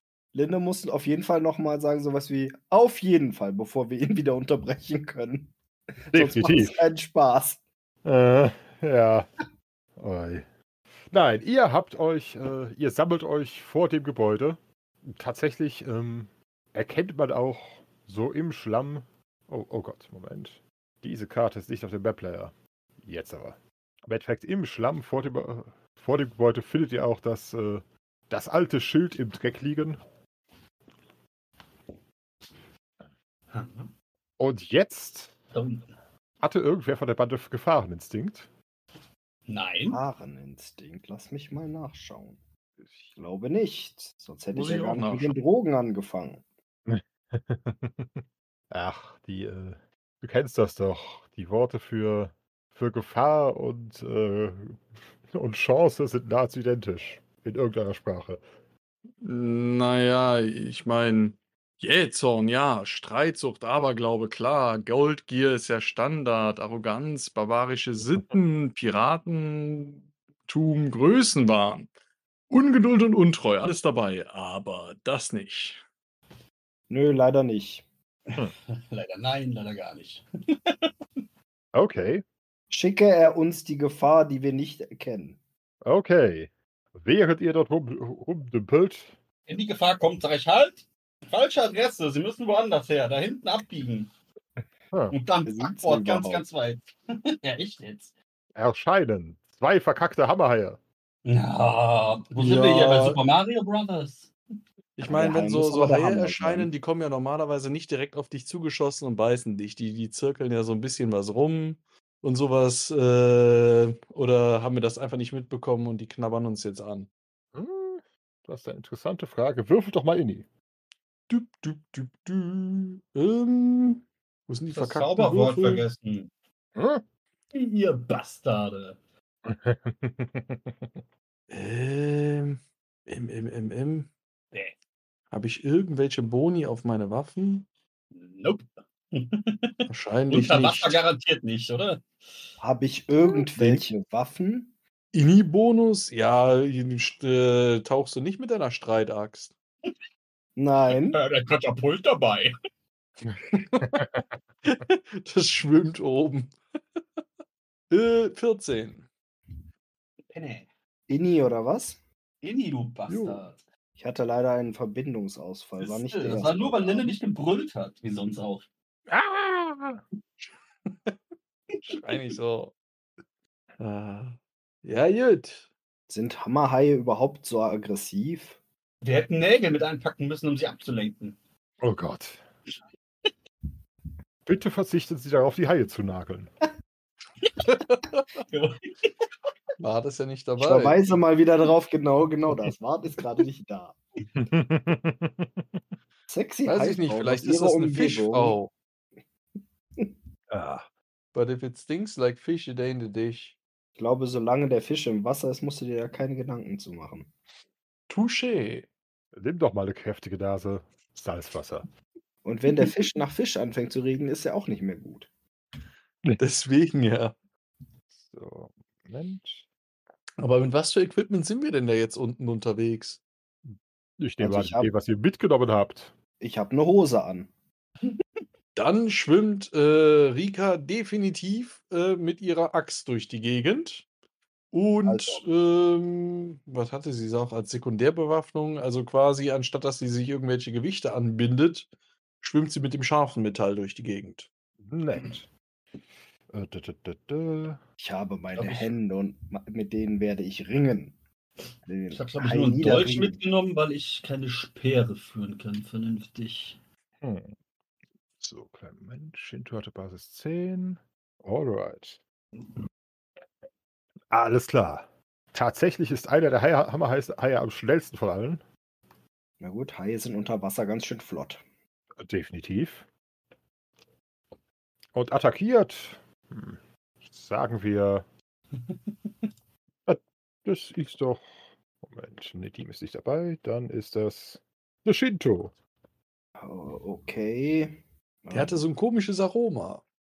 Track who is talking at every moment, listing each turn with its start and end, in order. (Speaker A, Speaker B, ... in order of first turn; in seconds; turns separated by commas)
Speaker A: 0.3-7.6, Speaker B: 6.1-6.8, Speaker B: 8.0-9.3, Speaker B: 10.0-10.4, Speaker B: 11.1-30.0, Speaker C: 33.5-33.9, Speaker B: 34.4-35.4, Speaker C: 35.5-35.9, Speaker B: 36.4-38.5, Speaker C: 39.5-40.0, Speaker A: 39.9-42.4, Speaker B: 42.8-43.1, Speaker A: 43.1-46.4, Speaker D: 44.5-45.4, Speaker B: 46.9-58.4, Speaker D: 59.2-71.9, Speaker D: 72.5-75.8, Speaker A: 76.9-77.9, Speaker C: 78.7-80.9, Speaker B: 81.7-82.2, Speaker A: 82.7-85.4, Speaker B: 85.8-89.1, Speaker C: 89.5-94.1, Speaker C: 95.1-96.8, Speaker A: 95.5-96.4, Speaker C: 97.4-98.1, Speaker B: 98.5-100.8, Speaker C: 101.2-104.3, Speaker D: 102.4-103.2, Speaker D: 105.0-117.1, Speaker A: 105.0-106.7, Speaker B: 117.5-120.5, Speaker D: 121.3-125.8, Speaker C: 124.7-126.3, Speaker B: 126.8-127.0, Speaker C: 127.5-129.0, Speaker B: 129.5-130.9, Speaker D: 131.5-134.1, Speaker D: 135.3-137.7, Speaker C: 138.1-139.7, Speaker D: 139.9-141.0, Speaker C: 140.3-142.2, Speaker A: 142.6-144.7, Speaker D: 145.1-149.5, Speaker A: 150.6-151.2, Speaker C: 150.9-152.5, Speaker D: 153.5-154.1, Speaker B: 153.8-154.2, Speaker D: 154.7-156.6, Speaker D: 157.9-159.1, Speaker C: 160.3-160.7, Speaker A: 161.1-162.0, Speaker C: 162.4-163.6, Speaker B: 163.1-163.4, Speaker A: 164.0-167.2, Speaker C: 165.8-168.7, Speaker B: 169.1-170.0, Speaker D: 170.9-171.2, Speaker D: 171.9-172.8, Speaker D: 173.8-175.7, Speaker A: 176.1-178.6, Speaker C: 179.0-181.4, Speaker B: 181.8-182.4, Speaker B: 184.5-186.5, Speaker C: 187.4-187.7, Speaker D: 187.7-188.3, Speaker C: 188.4-189.1, Speaker D: 189.8-191.0, Speaker A: 190.6-194.0, Speaker B: 194.3-195.7, Speaker A: 196.3-198.6, Speaker D: 196.7-198.7, Speaker B: 200.5-200.9, Speaker D: 201.3-203.6, Speaker A: 204.0-207.3, Speaker D: 208.1-208.9, Speaker B: 209.3-211.9, Speaker A: 212.4-215.3, Speaker D: 216.4-217.4, Speaker B: 218.1-219.7, Speaker D: 220.4-223.2, Speaker B: 224.2-226.1, Speaker A: 224.4-224.9, Speaker A: 226.4-227.5, Speaker D: 228.8-234.1, Speaker D: 234.7-241.9, Speaker A: 235.1-235.4, Speaker D: 242.4-244.5, Speaker B: 244.8-245.5, Speaker B: 246.5-247.8, Speaker A: 248.0-251.2, Speaker C: 248.6-248.9, Speaker A: 251.9-253.4, Speaker C: 252.1-256.8, Speaker B: 257.2-257.5, Speaker B: 258.4-262.2, Speaker B: 264.3-268.6, Speaker A: 269.6-271.6, Speaker B: 272.2-273.1, Speaker B: 275.1-278.3, Speaker B: 280.1-285.8, Speaker A: 286.6-288.8, Speaker D: 288.5-290.0